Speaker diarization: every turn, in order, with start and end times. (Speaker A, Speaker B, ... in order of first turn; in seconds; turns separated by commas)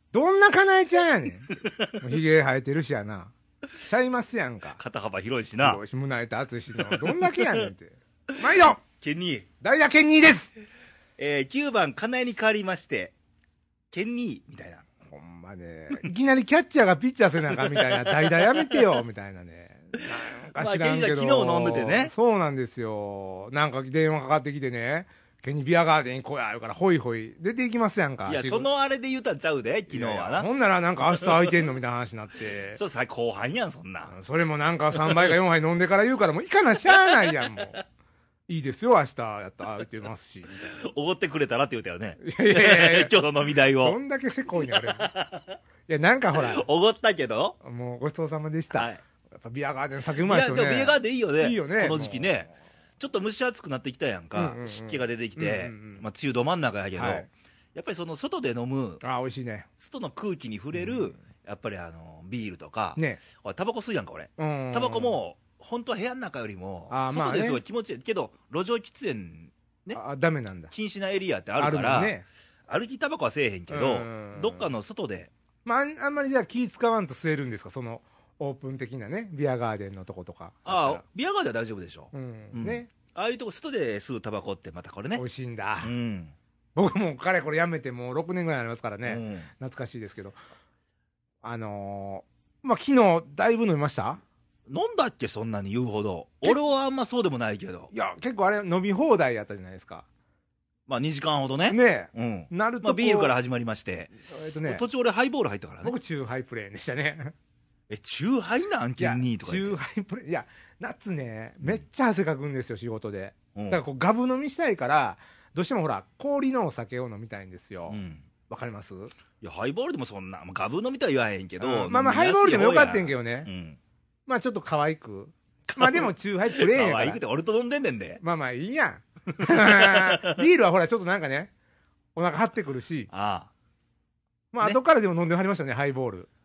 Speaker A: 0.1-4.8, Speaker B: 1.6-2.1, Speaker B: 4.8-5.8, Speaker A: 5.6-8.8, Speaker B: 6.8-7.7, Speaker B: 8.8-9.4, Speaker A: 9.6-10.5, Speaker B: 11.2-13.1, Speaker B: 13.9-14.8, Speaker A: 15.1-28.6, Speaker B: 17.6-18.7, Speaker B: 20.5-22.1, Speaker B: 28.2-30.5, Speaker A: 29.9-32.8, Speaker B: 32.7-34.1, Speaker A: 34.0-37.8, Speaker B: 36.9-37.6, Speaker A: 38.5-40.7, Speaker B: 40.7-44.0, Speaker A: 42.2-43.1, Speaker A: 43.8-45.1, Speaker B: 44.6-45.6, Speaker A: 45.9-46.6, Speaker B: 46.3-47.5, Speaker A: 47.6-52.5, Speaker B: 48.7-49.0, Speaker B: 50.2-59.0, Speaker A: 54.3-56.0, Speaker A: 56.9-57.3, Speaker A: 59.0-59.7, Speaker B: 59.8-70.0, Speaker A: 63.0-63.2, Speaker A: 64.4-65.2, Speaker A: 66.9-67.6, Speaker A: 69.9-70.7, Speaker B: 70.7-72.1, Speaker A: 71.6-72.2, Speaker B: 72.7-75.3, Speaker A: 73.7-74.7, Speaker A: 75.6-81.0, Speaker B: 80.7-85.2, Speaker A: 82.1-82.9, Speaker A: 85.1-85.9, Speaker B: 85.8-86.3, Speaker A: 86.8-90.4, Speaker B: 89.0-89.5, Speaker A: 91.4-94.2, Speaker B: 94.7-97.9, Speaker A: 97.9-100.0, Speaker B: 100.9-104.1, Speaker A: 101.7-103.3, Speaker A: 104.3-104.8, Speaker B: 104.6-105.9, Speaker A: 105.8-107.3, Speaker B: 107.9-109.8, Speaker A: 109.0-119.1, Speaker B: 113.5-113.8, Speaker B: 117.9-118.2, Speaker B: 119.4-123.8, Speaker A: 121.6-123.5, Speaker A: 124.3-127.2, Speaker B: 125.7-128.2, Speaker A: 128.2-131.5, Speaker B: 129.4-130.4, Speaker A: 132.1-133.1, Speaker B: 133.1-133.5, Speaker A: 134.5-136.3